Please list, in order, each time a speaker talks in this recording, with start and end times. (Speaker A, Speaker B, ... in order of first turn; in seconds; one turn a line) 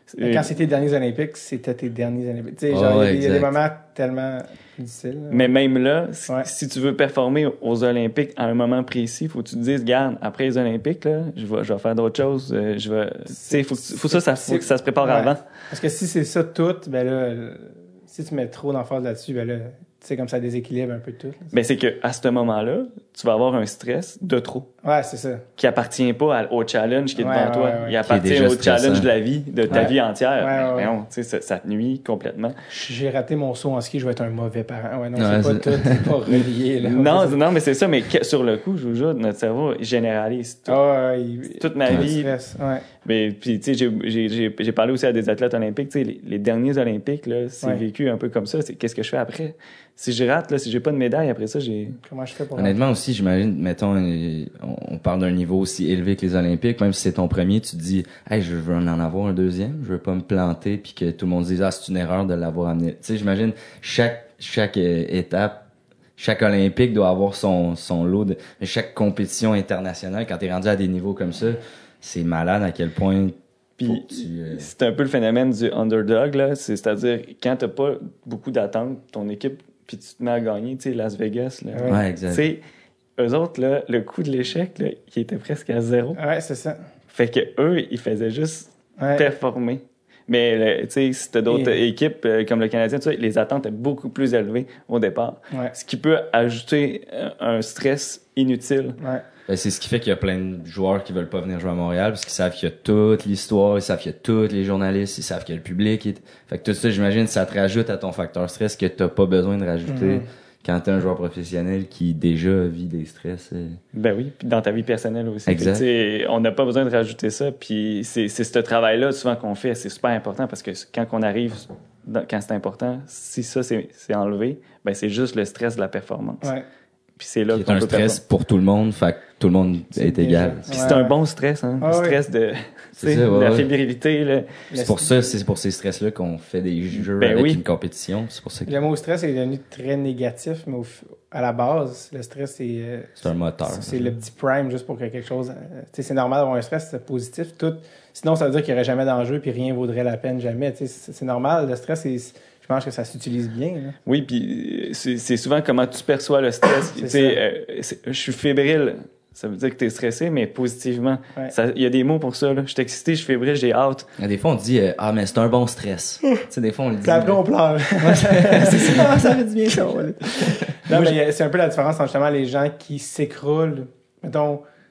Speaker A: 0.1-0.5
Speaker B: 0.2-5.5
Speaker C: 2.7-3.5
Speaker A: 5.3-15.4
Speaker B: 13.3-21.5
Speaker A: 21.5-24.7
Speaker B: 24.8-25.4
Speaker A: 25.6-32.5
Speaker B: 27.1-28.0
Speaker C: 28.0-29.1
Speaker B: 30.4-30.9
Speaker B: 32.7-37.4
Speaker C: 35.1-36.1
Speaker A: 36.3-40.8
Speaker B: 40.7-42.8
Speaker A: 41.5-42.3
Speaker A: 43.0-52.0
Speaker B: 52.0-52.8
Speaker C: 52.5-65.7
Speaker C: 66.2-74.7
Speaker A: 73.8-82.6
Speaker B: 81.7-82.0
Speaker C: 81.8-82.4
Speaker A: 83.2-86.2
Speaker B: 86.2-86.8
Speaker A: 87.1-99.0
Speaker B: 89.0-89.2
Speaker B: 91.5-91.8
Speaker C: 99.5-113.8
Speaker B: 109.8-110.2
Speaker A: 113.9-126.5
Speaker C: 115.5-115.8
Speaker A: 127.2-128.2
Speaker C: 127.5-131.0
Speaker B: 129.9-131.1
Speaker A: 130.7-134.6
Speaker B: 131.8-132.2
Speaker C: 133.0-133.7
Speaker B: 134.7-135.3
Speaker C: 134.8-138.8
Speaker A: 137.0-137.6
Speaker B: 138.7-153.9
Speaker C: 143.2-144.2
Speaker A: 154.1-164.1
Speaker B: 156.9-157.4
Speaker C: 164.2-167.4
Speaker B: 167.0-174.6
Speaker C: 168.0-170.9